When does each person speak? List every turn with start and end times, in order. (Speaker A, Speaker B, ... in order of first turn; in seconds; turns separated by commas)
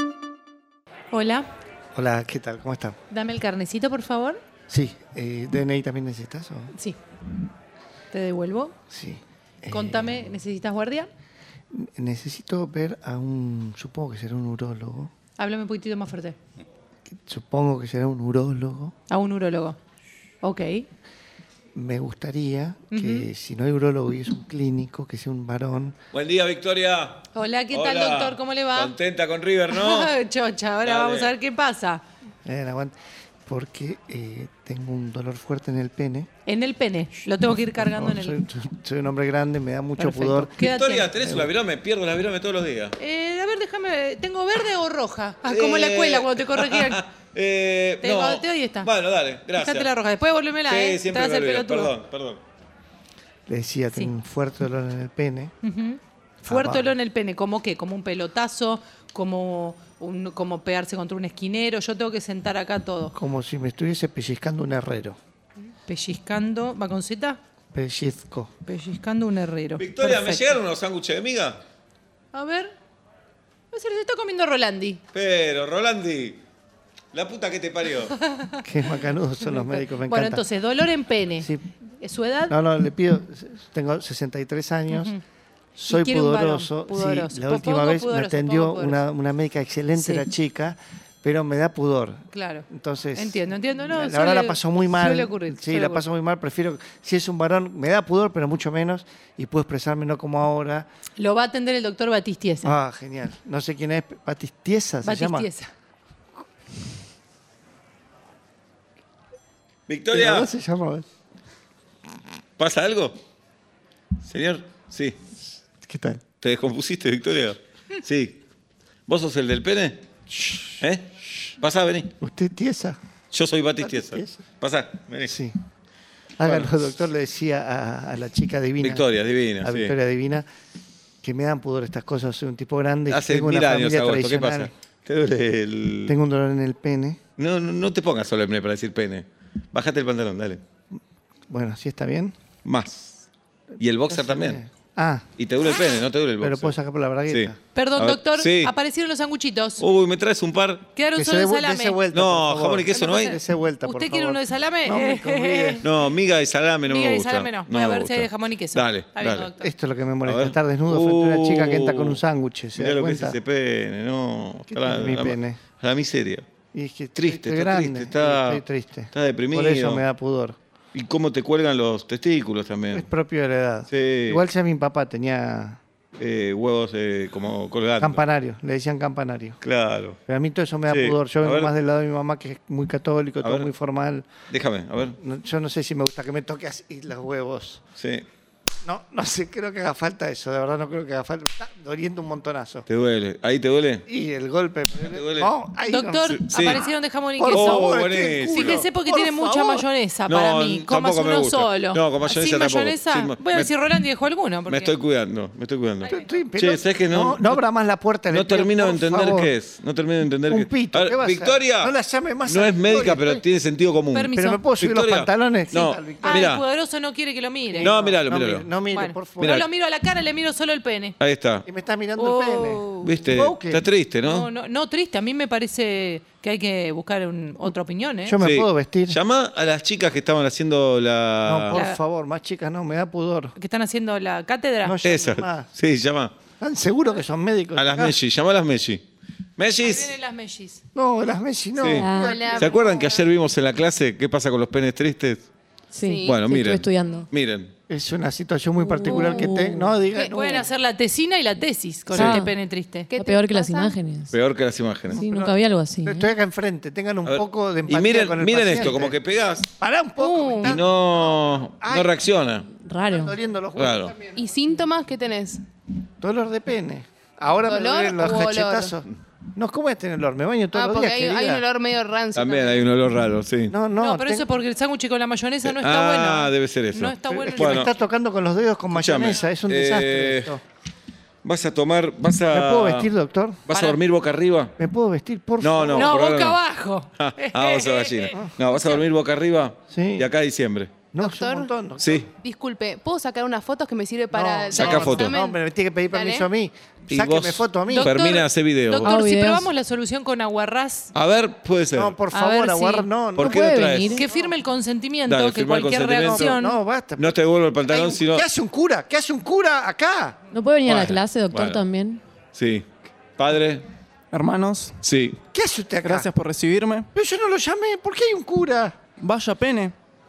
Speaker A: 1.1-1.4, Speaker B: 1.9-3.0, Speaker A: 3.1-4.4, Speaker B: 4.7-6.7, Speaker A: 8.1-8.7, Speaker B: 8.9-10.3, Speaker A: 9.7-11.1, Speaker B: 11.7-15.1, Speaker A: 15.4-16.4, Speaker B: 17.2-18.9, Speaker A: 19.1-19.8, Speaker A: 20.4-20.9, Speaker B: 21.7-26.0, Speaker A: 22.9-23.3, Speaker C: 26.1-30.1, Speaker A: 27.3-28.9, Speaker A: 29.7-32.0, Speaker C: 30.8-31.3, Speaker B: 32.4-36.3, Speaker A: 36.5-38.4, Speaker B: 37.8-40.5, Speaker A: 40.0-41.1, Speaker C: 40.6-42.9, Speaker B: 41.2-41.5, Speaker A: 43.0-47.0, Speaker C: 45.4-49.9, Speaker A: 48.0-48.9, Speaker A: 49.6-51.9, Speaker C: 50.7-52.4, Speaker B: 53.5-55.5, Speaker A: 55.6-63.1, Speaker B: 56.4-56.9, Speaker B: 63.1-65.2, Speaker A: 65.8-67.4, Speaker B: 67.7-68.5, Speaker A: 68.7-70.6, Speaker C: 69.8-71.6, Speaker A: 72.3-72.7, Speaker A: 73.7-75.0, Speaker C: 75.1-76.4, Speaker C: 77.1-78.2, Speaker B: 78.6-80.5, Speaker A: 79.5-82.5, Speaker B: 82.5-85.1, Speaker A: 84.9-85.2, Speaker B: 85.8-100.9, Speaker A: 85.9-89.0, Speaker A: 90.0-90.2, Speaker A: 92.3-96.0, Speaker A: 101.2-102.7, Speaker B: 102.6-105.5, Speaker A: 105.0-105.7, Speaker C: 109.9-110.5, Speaker B: 110.1-111.0, Speaker C: 112.6-113.2, Speaker C: 114.2-115.2, Speaker B: 115.8-116.2, Speaker C: 116.4-118.4, Speaker C: 119.1-120.0, Speaker B: 120.3-120.8, Speaker C: 120.8-121.0, Speaker C: 121.6-122.1, Speaker B: 122.2-123.0, Speaker C: 123.3-125.3, Speaker B: 123.8-124.4, Speaker B: 125.2-125.5, Speaker B: 126.4-129.1, Speaker C: 126.4-126.7, Speaker C: 128.8-129.9, Speaker B: 129.6-130.5, Speaker B: 131.2-134.7, Speaker C: 133.1-136.1, Speaker B: 136.1-137.2, Speaker C: 137.4-140.6, Speaker B: 141.5-142.3, Speaker C: 142.6-143.2, Speaker C: 143.8-144.6, Speaker B: 144.1-145.3, Speaker C: 145.4-148.7, Speaker B: 146.4-147.6, Speaker A: 147.7-149.8, Speaker C: 149.8-150.9, Speaker A: 150.9-152.0, Speaker B: 151.1-155.8, Speaker C: 152.1-153.4, Speaker A: 152.9-155.8, Speaker C: 155.8-159.5, Speaker A: 156.8-159.7, Speaker B: 159.6-163.4, Speaker C: 160.2-162.2, Speaker C: 162.8-166.4, Speaker B: 164.7-165.6, Speaker B: 166.7-170.6, Speaker C: 167.2-170.0, Speaker C: 170.9-173.1, Speaker B: 172.9-175.8, Speaker C: 173.9-174.4, Speaker C: 176.2-178.2, Speaker B: 178.0-179.6, Speaker C: 179.6-180.2, Speaker B: 180.3-184.3, Speaker C: 180.9-181.7, Speaker C: 183.4-183.7, Speaker C: 184.5-185.2, Speaker B: 185.2-187.8, Speaker C: 188.0-188.2, Speaker B: 188.8-192.8, Speaker C: 192.9-194.0, Speaker B: 194.1-199.8, Speaker C: 195.0-195.5, Speaker A: 195.9-197.9, Speaker C: 196.4-196.8, Speaker C: 197.5-198.8, Speaker A: 198.5-204.9, Speaker C: 200.3-203.7, Speaker C: 204.7-207.6, Speaker B: 206.1-209.5, Speaker C: 208.3-211.9, Speaker B: 210.5-213.4, Speaker C: 212.4-216.6, Speaker A: 214.1-214.6, Speaker B: 214.3-216.5, Speaker A: 216.2-217.9, Speaker B: 217.7-219.6, Speaker C: 217.8-218.7, Speaker A: 218.9-221.2, Speaker C: 219.4-219.6, Speaker C: 221.2-221.7, Speaker B: 221.7-223.8, Speaker A: 222.2-223.1, Speaker C: 223.0-224.5, Speaker A: 224.2-228.4, Speaker B: 228.2-229.2, Speaker C: 228.4-231.8, Speaker B: 231.4-233.6, Speaker A: 231.7-232.0, Speaker A: 233.6-235.0, Speaker B: 234.8-235.7, Speaker C: 235.0-236.4, Speaker B: 236.6-238.2, Speaker C: 237.8-239.0, Speaker C: 239.6-240.1, Speaker A: 239.8-240.8, Speaker B: 240.9-242.8, Speaker C: 241.8-245.4, Speaker D: 241.9-242.4, Speaker E: 242.1-243.1, Speaker D: 245.9-247.3, Speaker E: 246.0-246.4, Speaker C: 246.2-247.7, Speaker B: 247.9-250.7, Speaker D: 248.8-249.9, Speaker E: 249.1-249.5, Speaker E: 250.1-250.4, Speaker A: 250.3-253.1, Speaker C: 252.1-252.4, Speaker D: 252.1-252.5, Speaker E: 253.1-254.0, Speaker D: 253.2-254.3, Speaker C: 254.3-255.2, Speaker D: 255.1-256.3, Speaker B: 255.1-259.2, Speaker C: 257.2-259.7, Speaker B: 259.8-261.3, Speaker E: 260.2-260.8, Speaker C: 260.6-262.7, Speaker B: 261.8-262.1, Speaker D: 262.7-263.3, Speaker B: 263.0-264.3, Speaker C: 263.8-264.2, Speaker E: 264.3-265.6, Speaker B: 266.2-271.6, Speaker E: 267.6-268.9, Speaker E: 270.7-272.9, Speaker C: 272.3-273.7, Speaker B: 273.7-274.5, Speaker A: 274.0-277.9, Speaker C: 275.6-277.9, Speaker B: 277.3-280.6, Speaker C: 278.9-280.6, Speaker C: 281.4-283.1, Speaker B: 282.5-283.6, Speaker C: 283.7-284.7, Speaker A: 283.7-284.0, Speaker B: 284.8-286.1, Speaker C: 285.6-286.6, Speaker A: 285.9-289.0, Speaker C: 287.2-291.0, Speaker B: 289.9-290.3, Speaker B: 291.1-292.2, Speaker E: 291.2-295.6, Speaker C: 292.0-292.3, Speaker B: 294.3-298.1, Speaker C: 294.7-295.4, Speaker E: 296.1-296.5, Speaker C: 297.1-299.1, Speaker A: 297.9-301.1, Speaker D: 299.0-299.7, Speaker C: 301.1-302.2, Speaker B: 301.9-303.6, Speaker A: 302.3-303.1, Speaker C: 303.4-304.2, Speaker D: 303.4-304.2, Speaker A: 304.1-306.8, Speaker C: 305.2-306.5, Speaker B: 306.2-310.4, Speaker C: 307.2-308.4, Speaker D: 310.5-312.2, Speaker C: 310.9-311.8, Speaker C: 312.5-312.9, Speaker C: 313.4-313.9, Speaker F: 314.3-315.0, Speaker C: 315.0-315.4, Speaker B: 315.5-316.3, Speaker F: 316.0-317.1, Speaker B: 317.1-318.9, Speaker F: 319.2-319.9